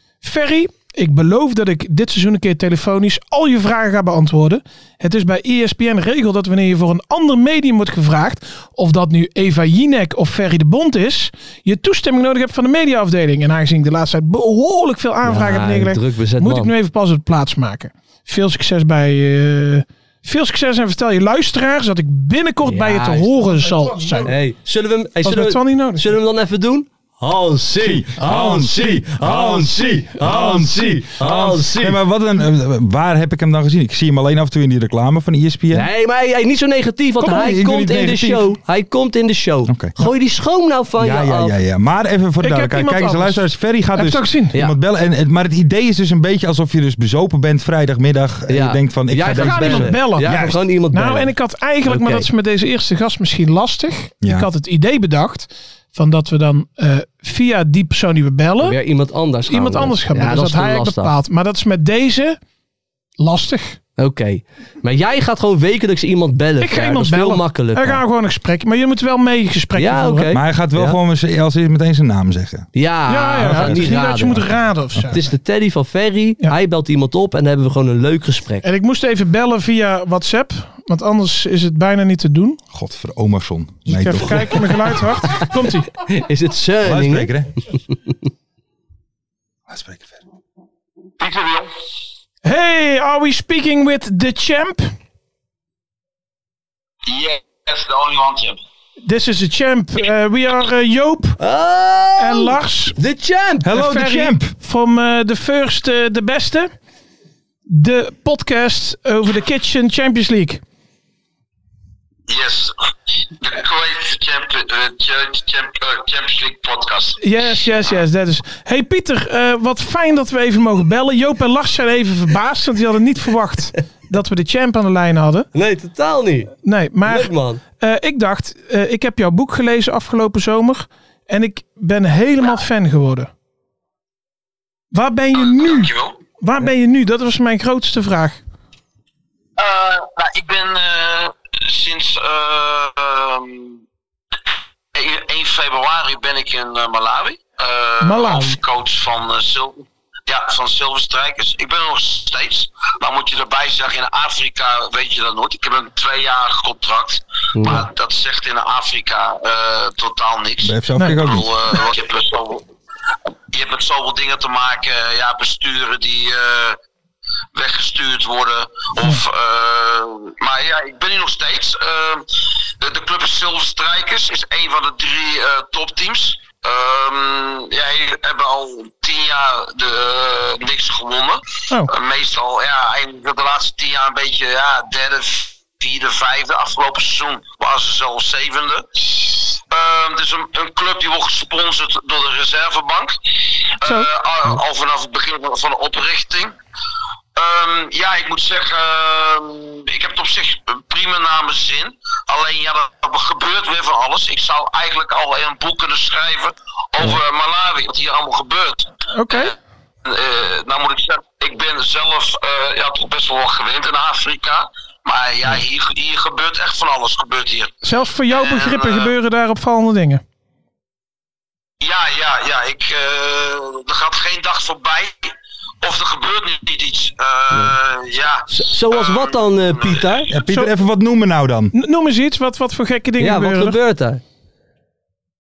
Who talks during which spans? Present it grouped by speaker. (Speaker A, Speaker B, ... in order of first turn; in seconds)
Speaker A: 0.2-24.3, 25.2-26.1, 37.2-37.5, 42.4-44.5, 49.2-58.8, 59.5-62.4, 63.2-63.8, 66.6-70.3, 73.1-75.3, 78.6-82.6, 83.9-85.9, 92.4-94.9, 99.1-101.4, 102.2-103.0, 103.7-106.7, 107.7-110.6, 117.2-125.5, 126.6-133.3, 134.9-138.4, 148.0-148.6, 161.0-161.2, 193.8-194.1, 209.1-209.5, 217.8-220.2, 230.5-230.7, 231.7-233.8
Speaker B: 15.2-16.7, 22.6-23.4, 24.2-32.0, 35.7-41.5, 48.5-51.3, 51.9-52.3, 58.6-61.1, 64.0-68.0, 69.8-71.0, 72.7-74.4, 75.1-78.7, 85.3-87.3, 101.4-103.7, 125.5-126.5, 127.0-127.6, 157.6-157.9, 227.5-227.8, 228.5-230.3, 233.2-234.2
Speaker C: 27.8-35.9, 37.2-38.5, 39.7-39.9, 41.0-50.6, 54.2-54.5, 70.3-72.7, 73.4-74.4, 82.7-84.9, 86.8-87.5, 89.7-90.2, 103.6-104.5, 160.6-161.5, 230.3-231.7
Speaker D: 91.2-91.7, 97.1-98.6, 112.3-112.7, 113.4-117.2, 135.3-136.2, 139.6-143.8, 144.9-162.7, 163.5-166.8, 167.5-172.3, 172.8-193.2, 193.8-196.6, 197.4-217.7, 218.3-219.1, 221.8-230.2